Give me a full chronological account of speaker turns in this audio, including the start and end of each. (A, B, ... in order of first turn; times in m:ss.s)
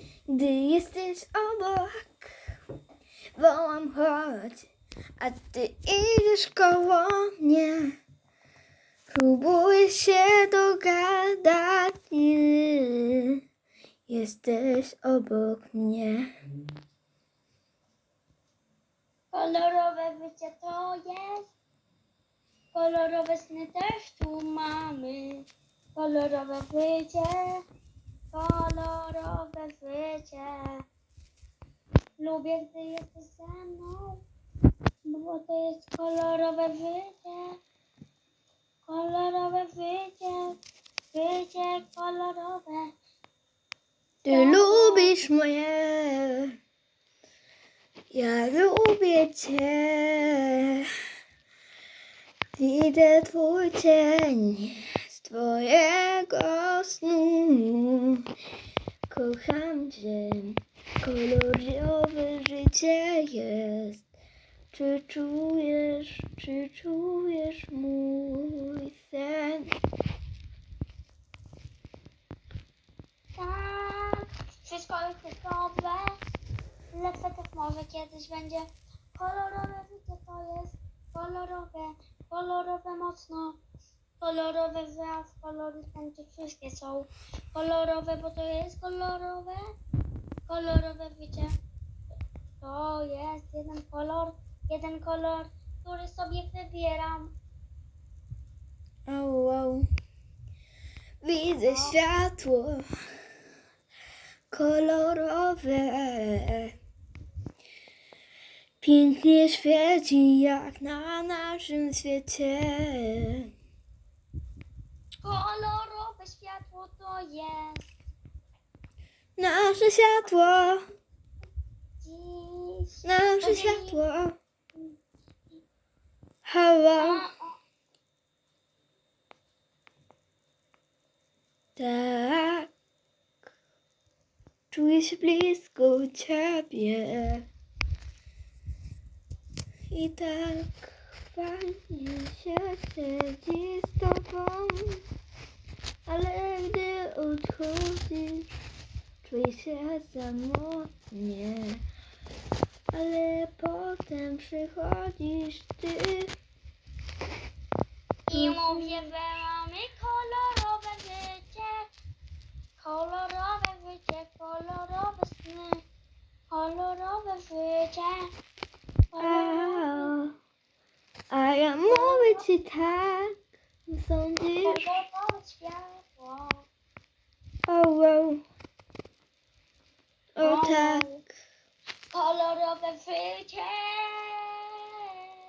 0:00.3-0:02.3 A
0:03.4-0:07.9 A
0:09.1-0:13.4 A
0:14.1-0:16.2 A
0:19.3-0:21.5 B
0:22.7-0:27.6 B
0:28.3-0:30.8 B
0:32.2-0:34.2 B
0:35.0-0:37.6 B
0:38.8-0:40.6 B
0:41.1-0:42.9 B
0:44.2-0:46.5 A
0:44.2-0:45.1 B
0:48.1-0:50.8 A
0:52.6-0:58.2 A
0:59.1-1:04.0 A
1:04.7-1:09.7 A
1:13.4-1:16.1 B
1:16.9-1:23.6 B
1:24.2-1:29.6 B
1:30.5-1:31.5 B
1:32.6-1:37.3 B
1:39.1-1:39.8 A
1:41.2-1:42.8 A
1:41.6-1:42.0 B
1:44.5-1:46.7 A
1:48.8-1:53.4 A
1:55.2-1:57.9 B
1:59.4-2:00.8 A
2:00.2-2:00.7 B
2:02.0-2:04.0 B
2:03.0-2:04.4 A
2:06.4-2:07.2 A
2:07.0-2:07.6 B
2:11.8-2:12.7 A
2:14.7-2:17.4 A
2:19.9-2:25.0 A
2:26.0-2:28.4 A
2:29.2-2:31.8 A
2:32.9-2:36.3 A
2:38.3-2:41.9 B
2:38.3-2:39.1 A
2:42.8-2:45.8 B
2:46.5-2:48.3 B
2:49.1-2:50.2 B
2:49.2-2:50.3 A
2:51.3-2:53.3 A
2:51.8-2:52.5 B
2:53.9-2:54.8 A
2:54.6-2:56.7 B
2:57.7-2:58.4 A
3:00.4-3:01.0 A
3:00.4-3:01.2 B
3:02.1-3:04.6 B